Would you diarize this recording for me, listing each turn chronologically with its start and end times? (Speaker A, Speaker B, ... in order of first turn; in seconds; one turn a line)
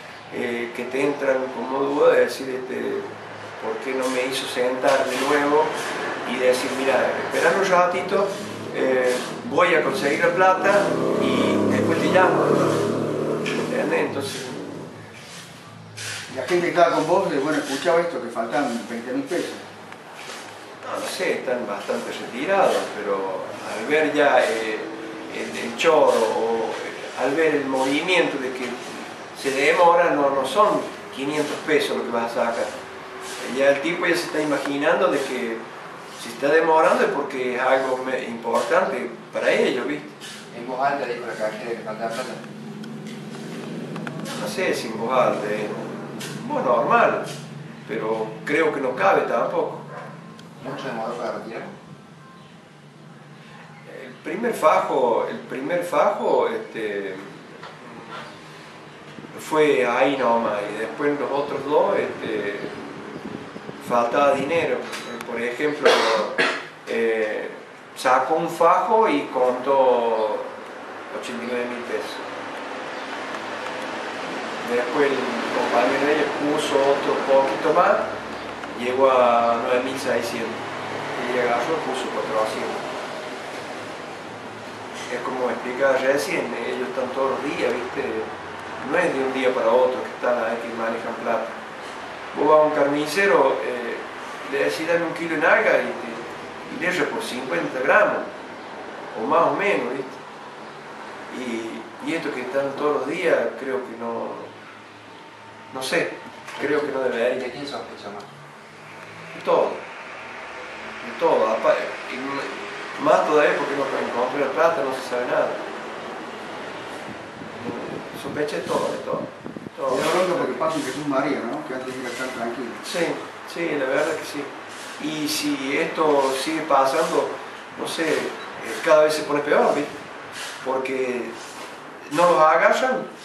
Speaker A: 0.3-12.8
Speaker A: 13.5-14.9
Speaker B: 16.3-19.6
Speaker A: 20.8-32.7
Speaker A: 33.4-35.6
Speaker A: 36.2-40.2
Speaker C: 40.5-42.4
Speaker A: 44.2-47.3
Speaker A: 47.9-49.9
Speaker C: 50.6-51.8
Speaker A: 53.9-58.0
Speaker A: 59.3-63.2
Speaker A: 63.8-70.5
Speaker A: 71.1-72.3
Speaker A: 74.6-78.1
Speaker A: 78.7-82.8
Speaker A: 85.1-91.6
Speaker A: 92.3-98.3
Speaker A: 99.1-100.2
Speaker A: 101.3-104.5
Speaker A: 105.7-107.5
Speaker C: 106.6-108.3
Speaker A: 109.3-109.8
Speaker A: 111.0-115.6
Speaker A: 117.5-120.7
Speaker B: 119.9-122.8
Speaker A: 122.8-129.9
Speaker A: 130.6-131.4
Speaker A: 132.1-133.1